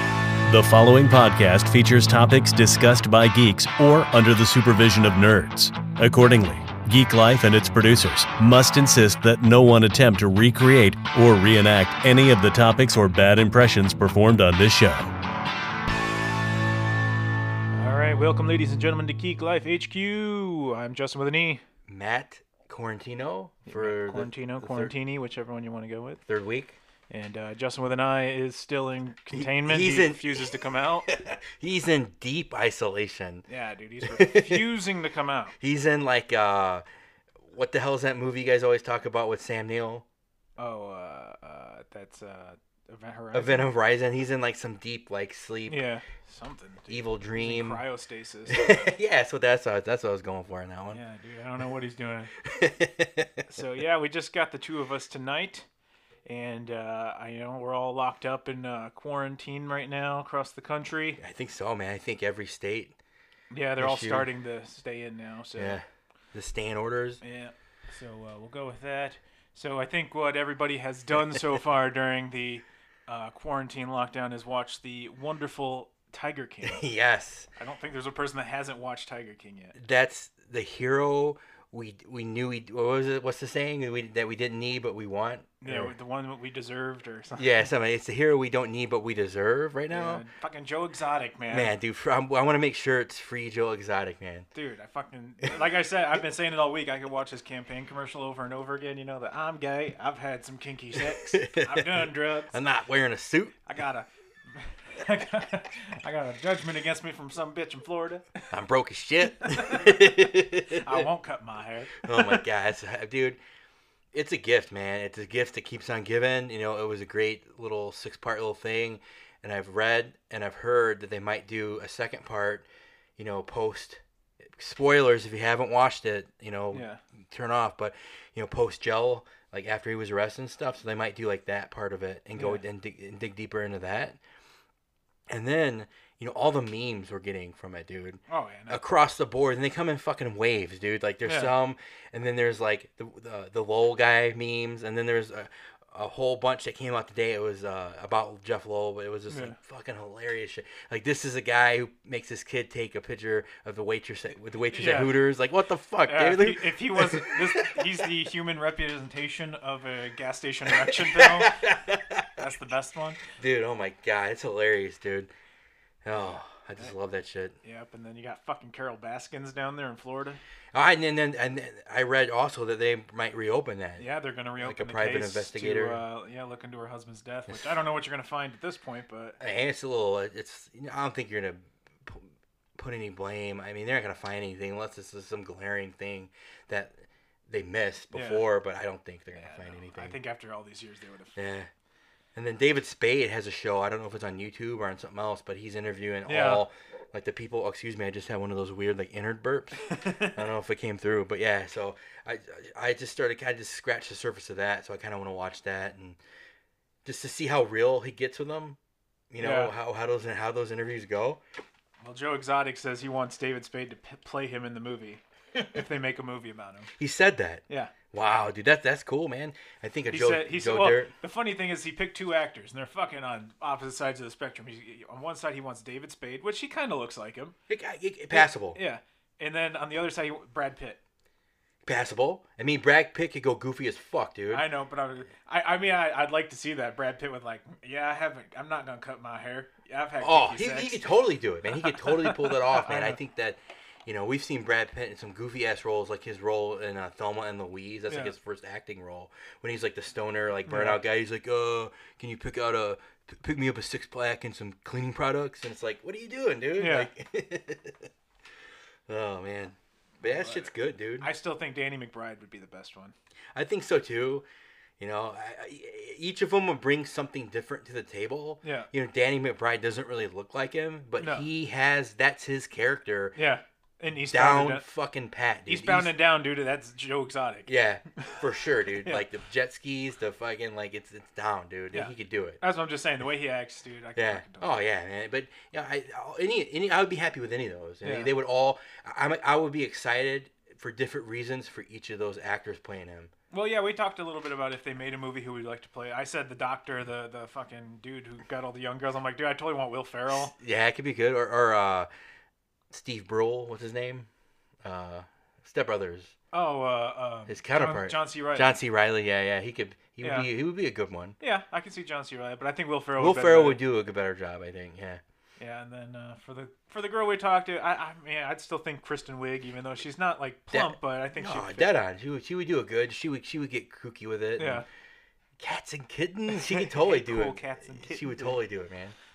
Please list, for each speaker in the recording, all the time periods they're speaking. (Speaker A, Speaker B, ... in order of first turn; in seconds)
Speaker A: 0.4-15.1
Speaker B: 17.7-21.6, 23.7-26.2, 27.1-31.1, 33.5-35.5, 40.6-43.7, 45.7-48.8, 50.9-52.3, 53.5-55.7, 56.3-61.2, 63.5-65.8, 67.2-76.8, 77.6-79.8, 85.6-87.6, 89.9-91.7, 94.5-102.6, 103.7-108.5, 109.5-110.1, 110.7-112.4, 126.7-127.0, 132.3-132.6, 138.3-138.8, 141.2-141.5, 149.3-149.6, 154.7-155.2, 156.1-161.6, 162.3-163.2, 166.1-166.9, 167.6-170.4, 174.0-179.4, 188.1-188.4, 189.3-191.4, 196.2-196.7, 199.9-200.4, 209.4-209.7, 212.0-216.9, 217.7-217.9, 220.1-227.6, 228.3-231.0, 234.5-241.2, 241.7-243.2, 248.1-248.3, 250.7-251.0, 256.8-257.1, 260.2-263.1, 268.6-268.9, 271.2-271.5, 273.3-274.9, 275.7-278.4, 279.0-279.2, 281.9-284.8, 288.0-288.3, 293.5-300.5, 306.5-308.7, 310.2-310.5, 311.4-313.8, 315.6-321.9, 324.6-324.9, 326.6-328.6
Speaker C: 21.9-24.9, 26.3-26.8, 29.3-30.5, 31.1-33.5, 34.1-34.7, 35.6-36.8, 37.5-40.0, 43.3-45.9, 46.9-47.8, 48.5-51.0, 52.4-53.5, 61.2-63.0, 63.8-64.3, 65.6-67.2, 76.6-77.5, 79.8-85.9, 87.4-90.2, 91.5-94.5, 101.3-103.6, 108.5-111.1, 112.0-113.4, 114.1-134.2, 135.3-158.0, 160.7-162.4, 163.3-165.3, 166.0-167.6, 170.7-176.0, 177.5-177.7, 179.4-190.2, 191.3-191.7, 192.3-206.2, 207.0-208.8, 209.3-211.4, 217.0-221.1, 227.7-228.8, 231.8-234.7, 240.2-258.1, 259.1-261.3, 263.5-264.4, 265.0-273.4, 274.2-276.1, 277.7-282.6, 284.1-293.3, 300.3-302.1, 302.9-304.3, 304.8-306.3, 307.5-311.4, 313.1-315.2, 320.7-324.8, 325.6-329.1